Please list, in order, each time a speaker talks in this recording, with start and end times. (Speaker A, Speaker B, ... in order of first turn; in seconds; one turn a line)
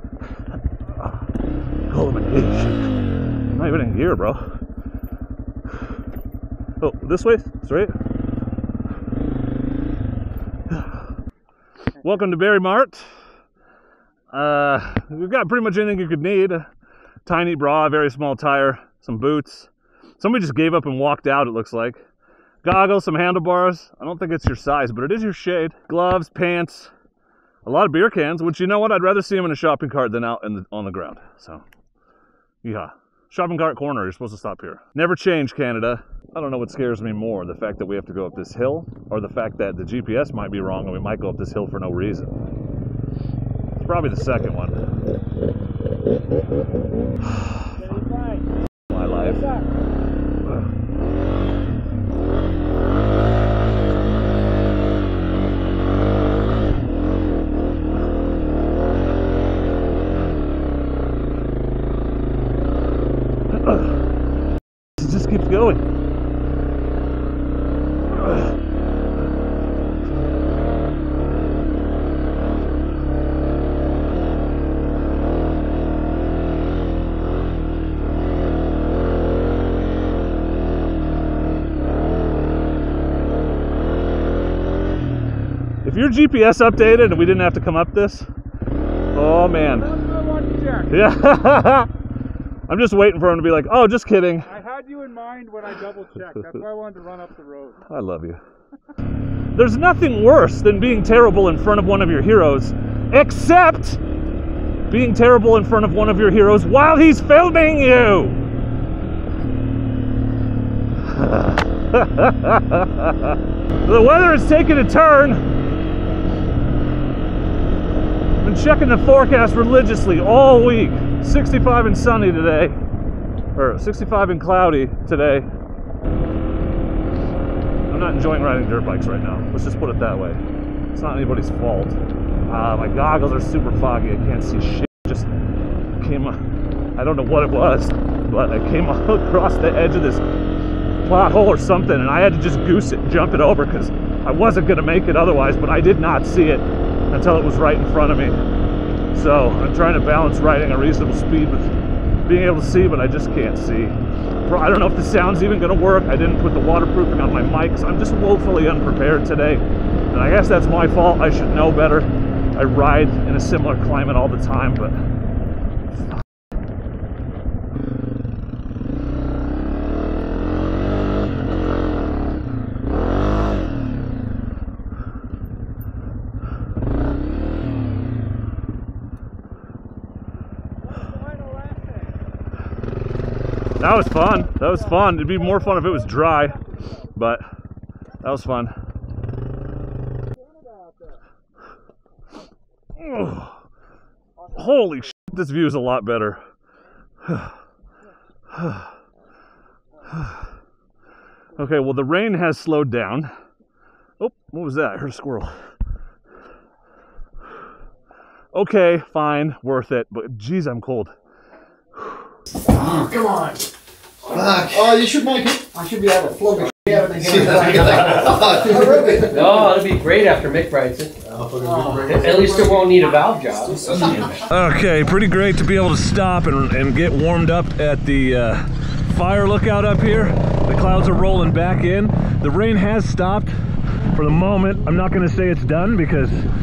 Speaker A: 1.9-2.9
Speaker A: 3.5-4.5
Speaker A: 6.8-7.9
Speaker A: 12.0-13.0
Speaker A: 14.3-16.6
Speaker A: 17.2-22.0
Speaker A: 22.6-26.9
Speaker A: 27.6-31.6
Speaker A: 32.6-42.3
Speaker A: 43.8-44.8
Speaker A: 48.9-49.4
Speaker A: 63.5-63.9
Speaker A: 65.0-65.8
Speaker A: 85.8-88.3
Speaker A: 89.1-90.0
Speaker B: 90.0-90.8
Speaker A: 90.8-91.9
Speaker A: 92.7-94.6
Speaker B: 94.5-97.8
Speaker A: 97.8-98.4
Speaker A: 99.5-104.0
Speaker A: 104.9-108.4
Speaker A: 111.1-115.4
Speaker A: 118.4-122.8
Speaker A: 123.5-125.5
Speaker A: 127.9-130.4
Speaker A: 130.9-135.3
Speaker A: 136.0-136.4
Speaker A: 136.9-140.2
Speaker A: 141.0-148.4
Speaker A: 149.1-151.7
Speaker A: 152.2-165.0
Speaker A: 183.8-187.5
Speaker A: 188.2-188.7
Speaker A: 193.0-193.6
Speaker A: 194.5-196.4
Speaker A: 198.5-198.9
Speaker A: 201.6-203.3
Speaker A: 204.2-205.5
Speaker A: 208.5-211.1
Speaker C: 212.7-213.6
Speaker C: 214.3-219.6
Speaker D: 217.5-217.8
Speaker D: 219.2-221.1
Speaker C: 221.3-222.8
Speaker D: 222.1-223.9
Speaker C: 223.8-224.3
Speaker A: 224.6-228.6
Speaker A: 229.1-233.5
Speaker A: 234.1-236.3